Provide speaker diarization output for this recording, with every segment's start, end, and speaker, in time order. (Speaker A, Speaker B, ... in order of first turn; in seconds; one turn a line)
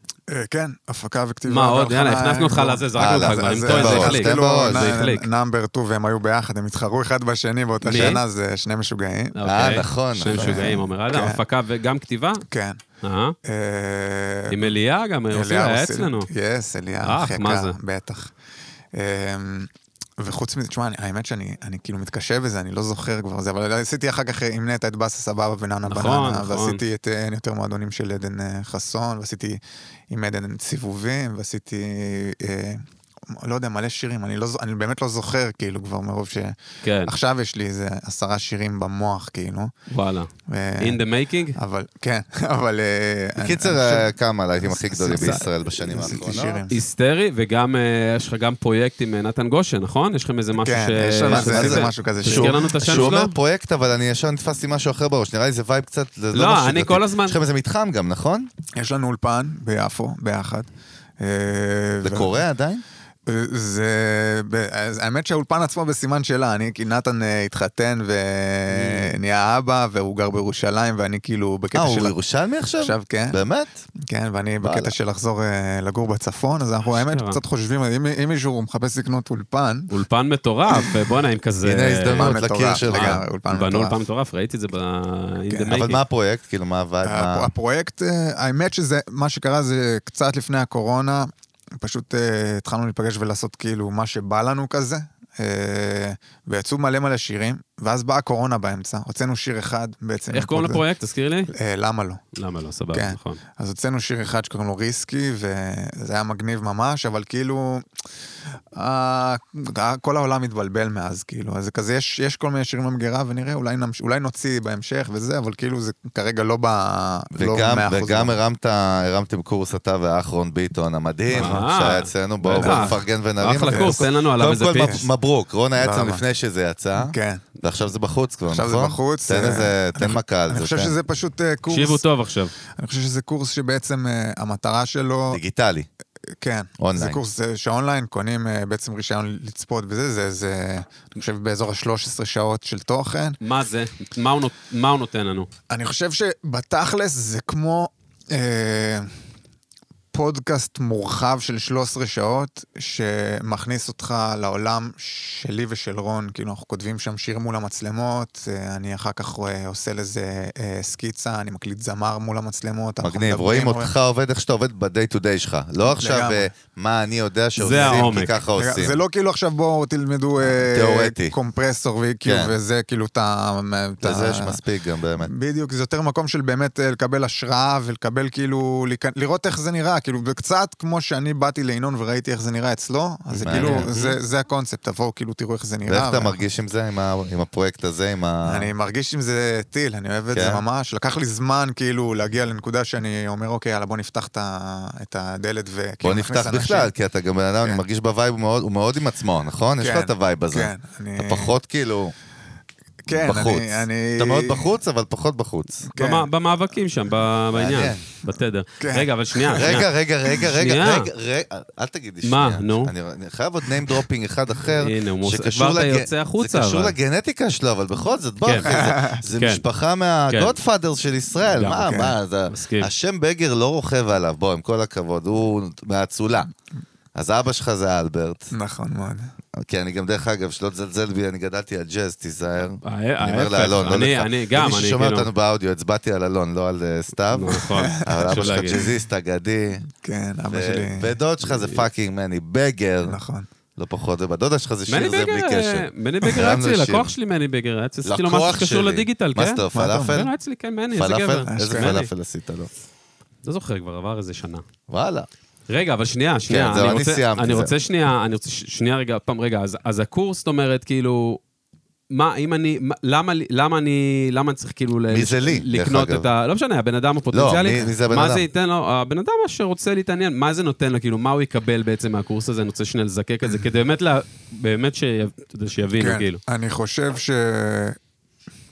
Speaker A: 0.3-9.4
Speaker B: 1.5-5.3
Speaker C: 3.0-5.0
Speaker B: 7.8-8.2
Speaker C: 7.9-8.2
Speaker B: 9.3-12.4
Speaker C: 9.4-10.8
Speaker A: 10.3-11.4
Speaker A: 12.5-12.8
Speaker B: 13.0-13.4
Speaker A: 13.4-14.8
Speaker B: 14.5-16.3
Speaker A: 15.3-18.3
Speaker B: 17.0-17.8
Speaker A: 18.9-39.7
Speaker B: 25.9-26.8
Speaker B: 36.8-37.1
Speaker B: 39.9-41.6
Speaker A: 40.5-41.0
Speaker A: 41.5-46.8
Speaker C: 43.4-46.7
Speaker B: 46.7-53.4
Speaker A: 50.6-53.1
Speaker C: 51.3-58.5
Speaker B: 56.3-57.4
Speaker A: 58.8-62.4
Speaker C: 62.0-62.8
Speaker A: 63.3-72.1
Speaker B: 68.7-69.2
Speaker C: 71.7-73.8
Speaker A: 72.8-73.4
Speaker A: 74.1-79.9
Speaker C: 74.6-75.0
Speaker B: 76.9-77.4
Speaker B: 79.9-86.0
Speaker C: 81.6-83.2
Speaker A: 82.1-84.0
Speaker C: 85.7-87.5
Speaker A: 87.0-100.8
Speaker B: 100.3-101.5
Speaker A: 101.5-102.2
Speaker B: 102.3-103.4
Speaker A: 102.9-107.9
Speaker A: 108.7-118.4
Speaker C: 117.3-130.9
Speaker A: 121.3-121.6
Speaker B: 121.3-125.1
Speaker A: 122.5-123.0
Speaker A: 123.7-124.0
Speaker A: 125.8-126.2
Speaker A: 127.0-127.4
Speaker A: 128.5-132.0
Speaker B: 131.7-132.5
Speaker A: 132.7-135.4
Speaker C: 135.3-135.9
Speaker A: 136.4-143.4
Speaker C: 136.8-137.2
Speaker B: 143.4-145.5
Speaker A: 145.7-149.1
Speaker A: 150.1-163.9
Speaker C: 163.0-169.0
Speaker A: 165.8-166.5
Speaker B: 167.6-168.3
Speaker A: 167.8-174.6
Speaker C: 170.4-171.3
Speaker C: 172.2-172.6
Speaker C: 174.0-175.3
Speaker A: 175.2-186.4
Speaker B: 183.4-184.2
Speaker C: 183.4-183.9
Speaker C: 185.9-188.7
Speaker A: 188.5-196.9
Speaker C: 190.3-190.6
Speaker C: 196.0-202.1
Speaker A: 199.8-201.6
Speaker A: 203.1-204.7
Speaker C: 203.1-205.9
Speaker A: 205.9-206.3
Speaker B: 206.0-211.1
Speaker C: 207.5-208.1
Speaker A: 208.8-209.6
Speaker C: 209.5-226.5
Speaker B: 212.2-212.9
Speaker B: 214.8-216.9
Speaker B: 218.4-218.8
Speaker A: 218.7-219.2
Speaker B: 219.3-219.6
Speaker B: 220.3-220.6
Speaker A: 221.6-222.2
Speaker B: 222.5-222.9
Speaker C: 227.2-228.5
Speaker A: 228.5-229.3
Speaker C: 229.6-239.8
Speaker B: 232.8-235.3
Speaker B: 237.3-238.8
Speaker A: 237.8-238.9
Speaker A: 240.0-241.1
Speaker C: 240.5-243.2
Speaker B: 241.4-241.9
Speaker A: 243.0-243.5
Speaker C: 243.8-247.1
Speaker B: 244.9-252.1
Speaker C: 248.1-250.3
Speaker A: 249.7-250.2
Speaker C: 250.9-252.7
Speaker A: 251.5-251.9
Speaker B: 253.4-254.7
Speaker C: 254.9-255.3
Speaker B: 255.7-261.4
Speaker C: 256.5-257.7
Speaker B: 262.1-276.4
Speaker C: 265.1-266.3
Speaker C: 267.3-268.5
Speaker A: 276.0-278.0